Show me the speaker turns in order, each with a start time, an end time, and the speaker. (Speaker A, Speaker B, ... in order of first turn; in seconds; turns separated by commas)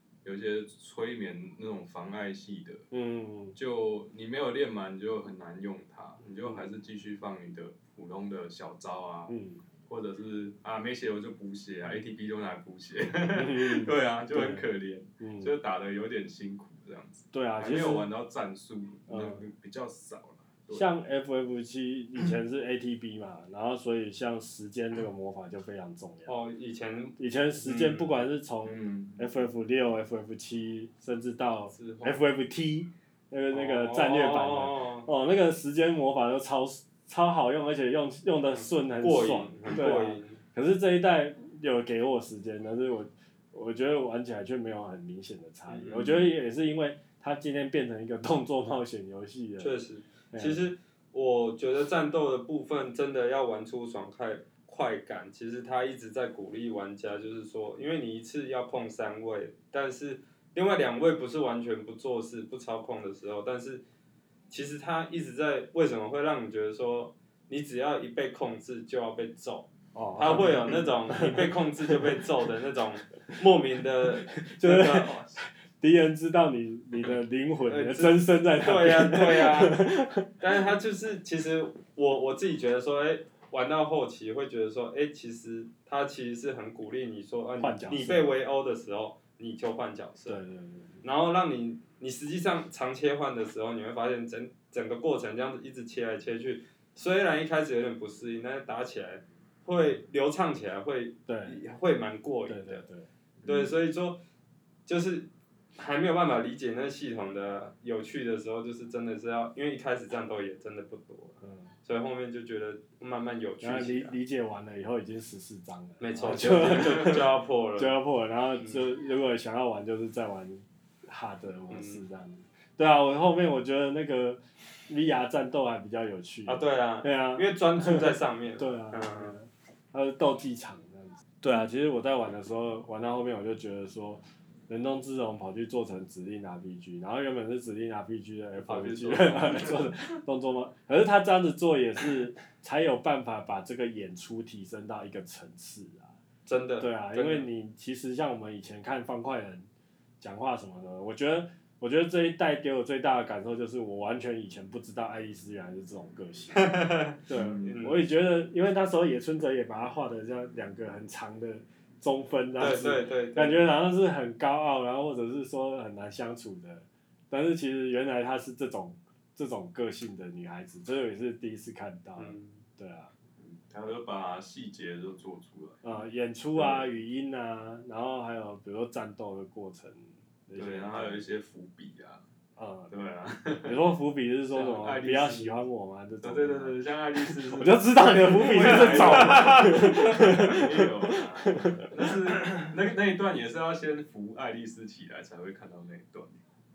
Speaker A: 0.2-2.9, Speaker B: 2.9-3.6, Speaker A: 3.5-9.3, Speaker B: 9.3-9.6, Speaker A: 9.9-20.9, Speaker B: 13.3-14.7, Speaker B: 15.2-15.5, Speaker B: 17.3-18.1, Speaker B: 19.1-19.4, Speaker B: 20.7-26.4, Speaker C: 26.3-28.2, Speaker B: 27.2-49.8, Speaker A: 28.6-29.3, Speaker C: 31.7-32.2, Speaker C: 33.5-35.1, Speaker C: 38.5-40.4, Speaker C: 45.7-46.3, Speaker C: 49.6-63.8, Speaker B: 50.3-50.7, Speaker C: 64.5-75.4, Speaker B: 69.9-72.2, Speaker B: 74.3-80.3, Speaker C: 77.7-79.9, Speaker C: 80.4-90.4, Speaker B: 87.6-88.3, Speaker B: 90.3-91.0, Speaker C: 91.0-102.8, Speaker B: 101.3-101.6, Speaker B: 102.5-103.1, Speaker A: 103.4-103.7, Speaker C: 103.5-104.2, Speaker C: 104.9-114.2, Speaker B: 111.4-111.7, Speaker B: 113.6-146.2, Speaker C: 116.0-117.9, Speaker A: 116.5-116.9, Speaker C: 118.6-118.9, Speaker C: 121.7-122.0, Speaker C: 126.5-129.3, Speaker C: 138.7-139.8, Speaker A: 139.1-139.9, Speaker C: 146.5-147.5, Speaker B: 146.8-149.7, Speaker B: 150.2-156.7, Speaker C: 156.5-158.1, Speaker B: 157.3-173.1, Speaker A: 157.3-157.8, Speaker C: 162.6-163.7, Speaker C: 172.2-172.7, Speaker A: 173.4-175.8, Speaker B: 175.8-181.2, Speaker A: 176.6-176.9, Speaker A: 180.6-182.3, Speaker B: 182.6-182.9, Speaker A: 182.9-183.8, Speaker B: 183.6-192.7, Speaker A: 184.5-185.6, Speaker A: 186.2-196.4, Speaker C: 188.6-189.8